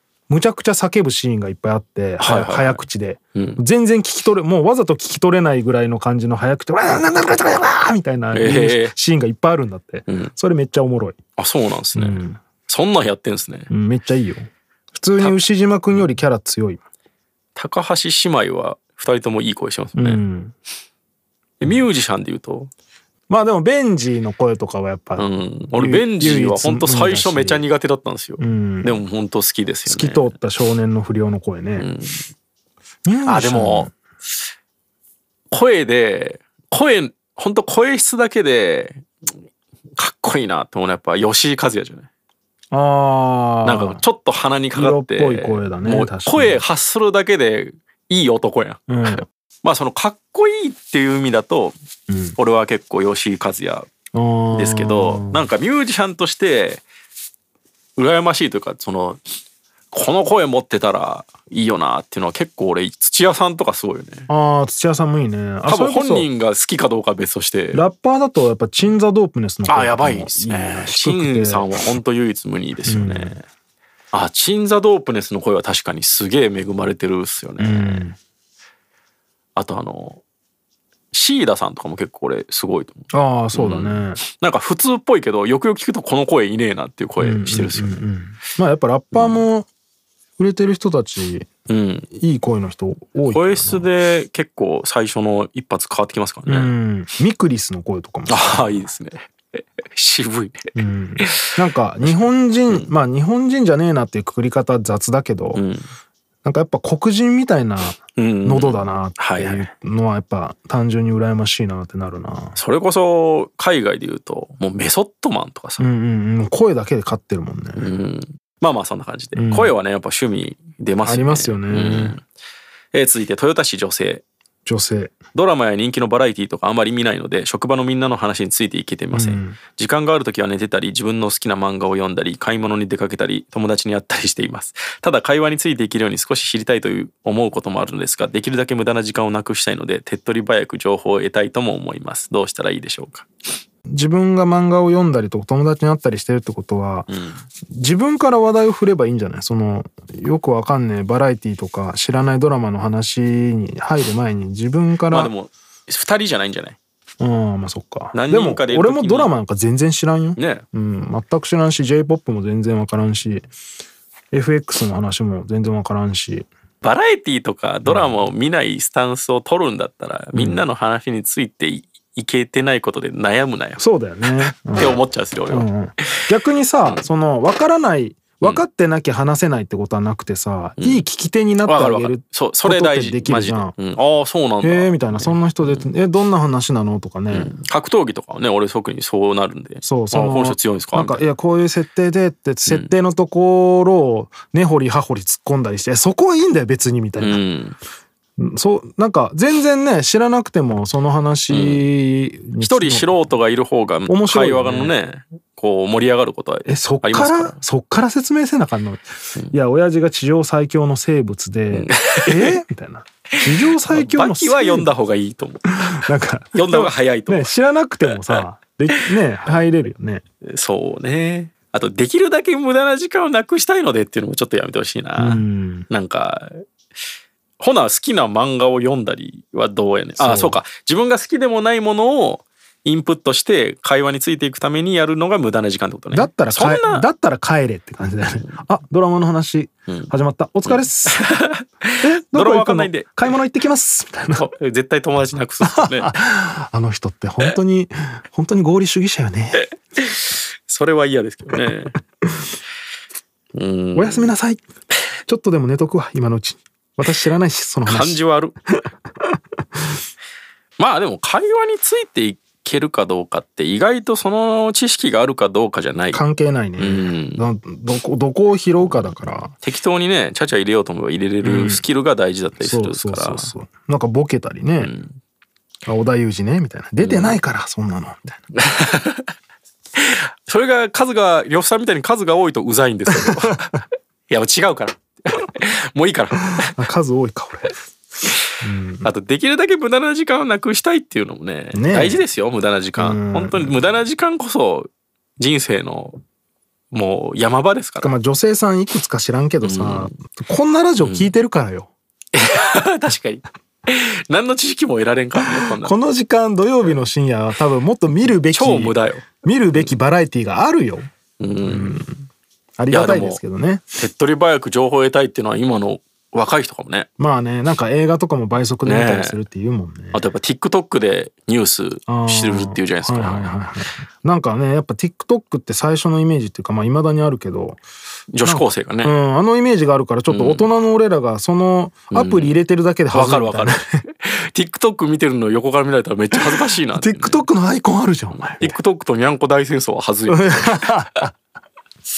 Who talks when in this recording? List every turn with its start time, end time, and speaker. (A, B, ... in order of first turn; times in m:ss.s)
0:00.3-0:11.2 A
0:02.2-0:02.8 B
0:03.4-0:03.6 B
0:08.3-0:08.9 B
0:10.1-0:10.3 B
0:11.4-0:13.7 B
0:12.0-0:12.4 A
0:13.7-0:16.8 A
0:17.6-0:20.2 B
0:20.0-0:20.6 A
0:21.6-0:22.7 B
0:23.3-0:27.7 A
0:25.2-0:30.3 B
0:28.4-0:29.0 A
0:29.8-0:31.9 A
0:31.8-0:32.3 B
0:33.1-0:33.9 A
0:33.3-0:33.9 B
0:35.5-0:39.1 B
0:40.0-0:42.1 B
0:42.7-0:44.0 A
0:43.6-0:51.8 B
0:44.7-0:46.6 A
0:48.9-0:49.3 A
0:52.1-0:52.4 A
0:52.4-0:53.9 B
0:54.1-0:55.5 A
0:54.5-0:56.8 B
0:58.0-0:59.2 B
0:59.9-1:04.3 B
1:04.3-1:06.3 A
1:05.7-1:07.8 B
1:07.7-1:11.7 A
1:09.7-1:13.4 B
1:12.8-1:13.4 A
1:14.1-1:18.1 B
1:17.6-1:18.2 A
1:19.6-1:20.2 B
1:21.1-1:28.0 B
1:23.1-1:24.2 A
1:27.2-1:29.7 A
1:29.1-1:29.4 B
1:30.4-1:31.5 A
1:31.7-1:32.1 B
1:32.1-1:33.9 A
1:33.3-1:36.7 B
1:36.5-1:38.9 A
1:38.3-1:42.9 B
1:40.8-1:45.6 A
1:45.6-1:45.9 B
1:46.4-1:52.6 A
1:48.2-1:49.7 B
1:52.6-1:55.8 B
1:55.8-1:57.9 A
1:57.8-2:02.2 B
1:59.3-1:59.7 A
2:01.0-2:02.2 A
2:02.9-2:04.2 B
2:04.7-2:05.1 A
2:05.3-2:23.3 B
2:09.1-2:09.6 A
2:23.9-2:27.1 A
2:27.1-2:27.4 B
2:27.7-2:35.3 A
2:35.1-2:36.8 B
2:37.2-2:43.5 A
2:38.1-2:39.3 B
2:40.4-2:40.7 B
2:44.3-2:46.5 A
2:46.8-2:53.8 B
2:47.9-2:48.2 A
2:50.4-2:50.6 A
2:53.8-3:03.8 A
2:54.4-2:56.2 B
3:00.8-3:01.0 B
3:01.6-3:05.9 B
3:04.6-3:07.5 A
3:07.3-3:11.3 B
3:09.8-3:17.4 A
3:12.7-3:12.9 B
3:17.2-3:17.8 B
3:18.4-3:23.3 A
3:21.5-3:21.9 B
3:22.6-3:27.6 B
3:24.1-3:25.0 A
3:26.7-3:34.9 A
3:31.7-3:32.6 B
3:33.7-3:36.0 B
3:35.8-3:40.2 A
3:36.5-3:37.5 B
3:38.0-3:38.4 B
3:40.4-3:46.6 B
3:45.2-3:45.9 A
3:47.6-3:57.1 B
3:50.2-3:50.6 A
3:56.1-4:01.2 A
4:00.7-4:03.3 B
4:02.0-4:04.5 A
4:04.3-4:06.2 B
4:05.6-4:09.7 A
4:09.5-4:12.0 B
4:13.6-4:14.3 B
4:14.0-4:14.6 A
4:15.3-4:18.2 A
4:17.8-4:18.6 B
4:20.8-4:26.2 B
4:26.1-4:29.5 A
4:26.8-4:27.4 B
4:28.8-4:33.5 B
4:31.4-4:31.8 A
4:32.6-4:34.9 A
4:34.8-4:35.2 B
4:35.9-4:38.4 A
4:37.0-4:37.4 B
4:38.5-4:39.3 B
4:40.0-4:46.7 B
4:43.1-4:43.6 A
4:46.7-4:47.7 A
4:48.6-4:49.1 A
4:49.0-4:56.2 B
4:51.7-4:52.2 A
4:53.0-4:53.8 A
4:56.9-4:58.1 B
4:58.0-5:01.9 A
4:59.6-5:00.1 B
5:01.0-5:01.3 B
5:02.3-5:06.0 B
5:05.5-5:11.1 A
5:08.4-5:09.9 B
5:11.4-5:12.1 B
5:11.6-5:12.1 A
5:12.8-5:13.8 A
5:12.9-5:13.4 B
5:14.0-5:17.1 B
5:17.2-5:20.2 A
5:18.8-5:19.4 B
5:20.1-5:23.6 B
5:22.1-5:27.8 A
5:28.3-5:29.1 B
5:28.4-5:34.0 A
5:30.3-5:30.7 B
5:32.1-5:32.6 B
5:33.1-5:37.5 B
5:36.3-5:38.8 A
5:38.3-5:41.2 B
5:40.3-5:41.3 A